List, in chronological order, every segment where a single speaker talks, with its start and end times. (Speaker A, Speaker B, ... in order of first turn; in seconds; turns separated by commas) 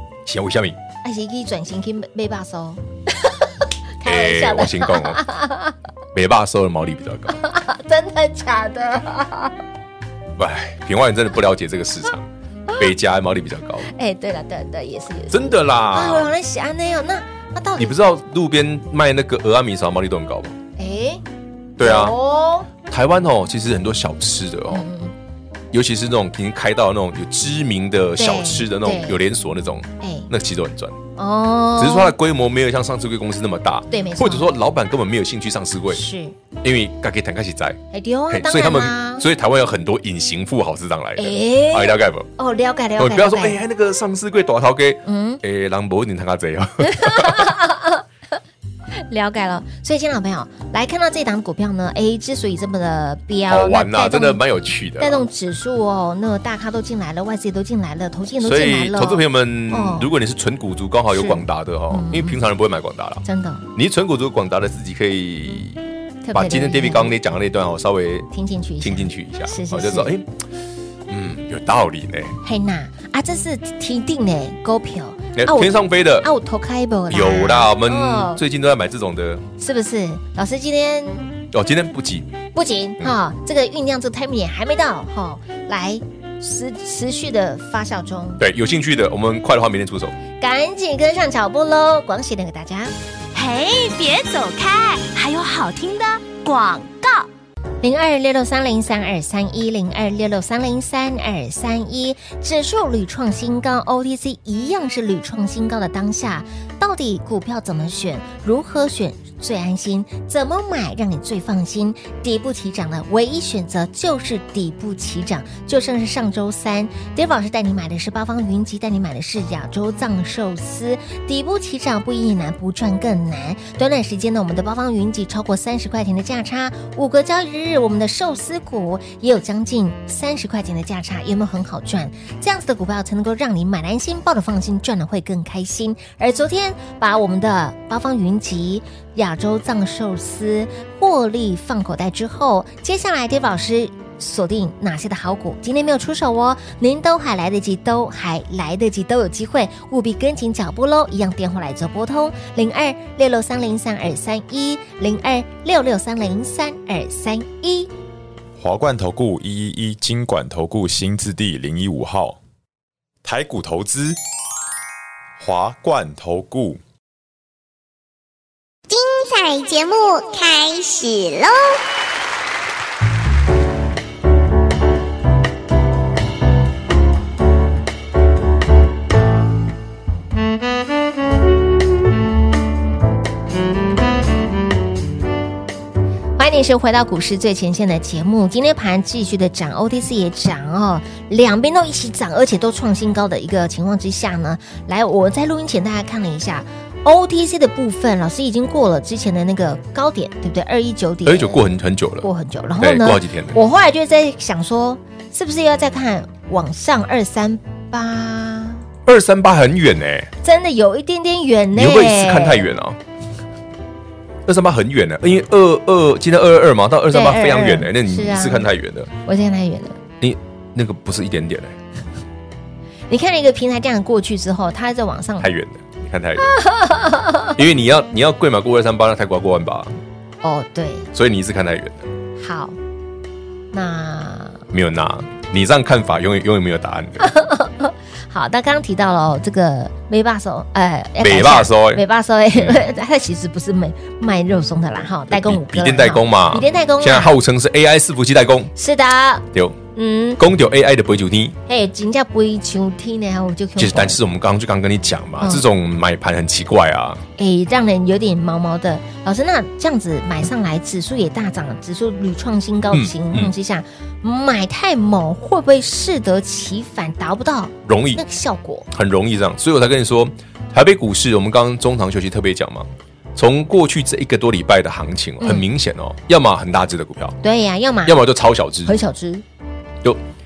Speaker A: 0.2-0.8, Speaker B: 1.0-5.8, Speaker A: 4.0-5.2, Speaker A: 6.1-7.4, Speaker B: 7.3-9.5, Speaker A: 10.4-13.9, Speaker B: 13.9-18.0, Speaker A: 15.3-16.3, Speaker A: 17.8-20.6, Speaker B: 20.8-21.2, Speaker A: 21.8-22.2, Speaker B: 21.8-22.7, Speaker A: 22.9-24.9, Speaker B: 24.7-25.1, Speaker A: 25.7-31.0, Speaker B: 28.2-29.2, Speaker B: 30.0-30.3, Speaker B: 31.2-32.1, Speaker A: 31.8-36.0, Speaker B: 33.9-34.5, Speaker B: 35.9-36.4, Speaker A: 36.6-42.3, Speaker B: 37.9-39.3, Speaker B: 41.2-43.6, Speaker A: 43.0-47.5, Speaker B: 45.0-45.4, Speaker B: 46.8-48.0, Speaker B: 49.0-54.4, Speaker A: 53.5-55.2, Speaker B: 55.0-60.1, Speaker A: 58.4-65.8, Speaker B: 61.1-62.4, Speaker B: 63.2-63.6, Speaker B: 66.2-67.1, Speaker A: 66.3-68.3, Speaker B: 68.3-70.1, Speaker A: 68.8-70.3, Speaker A: 71.1-72.4, Speaker B: 72.4-78.4, Speaker A: 75.3-76.3, Speaker A: 77.1-79.4, Speaker B: 79.6-81.3, Speaker A: 81.5-82.3, Speaker B: 82.5-88.4, Speaker A: 88.4-90.1, Speaker B: 90.4-92.9, Speaker C: 93.3-97.3, Speaker B: 97.8-157.9, Speaker D: 158.6-162.4, Speaker D: 163.2-164.2, Speaker D: 165.4-166.8, Speaker E: 168.9-171.8, Speaker B: 186.4-201.6, Speaker A: 201.2-203.6, Speaker B: 202.2-208.8, Speaker A: 209.1-210.3, Speaker B: 210.4-212.7, Speaker A: 211.7-213.0, Speaker A: 214.4-219.1, Speaker B: 217.1-218.7, Speaker B: 219.2-220.0, Speaker A: 220.2-221.8, Speaker B: 223.1-225.5, Speaker A: 225.4-226.5, Speaker B: 226.6-227.5, Speaker A: 227.6-229.9, Speaker B: 230.4-231.1, Speaker A: 231.1-232.1, Speaker B: 232.4-232.8, Speaker B: 233.7-234.6, Speaker A: 234.7-237.3, Speaker B: 237.2-247.4, Speaker A: 241.2-242.0, Speaker A: 242.5-242.8, Speaker A: 245.3-248.7, Speaker B: 248.8-250.4, Speaker A: 250.4-251.5, Speaker B: 251.7-254.2, Speaker A: 253.8-257.2, Speaker B: 257.4-268.9, Speaker A: 262.9-263.5, Speaker A: 267.8-268.2, Speaker A: 268.9-277.4, Speaker B: 275.4-275.6, Speaker B: 277.4-278.2, Speaker A: 278.0-278.9, Speaker B: 278.9-279.4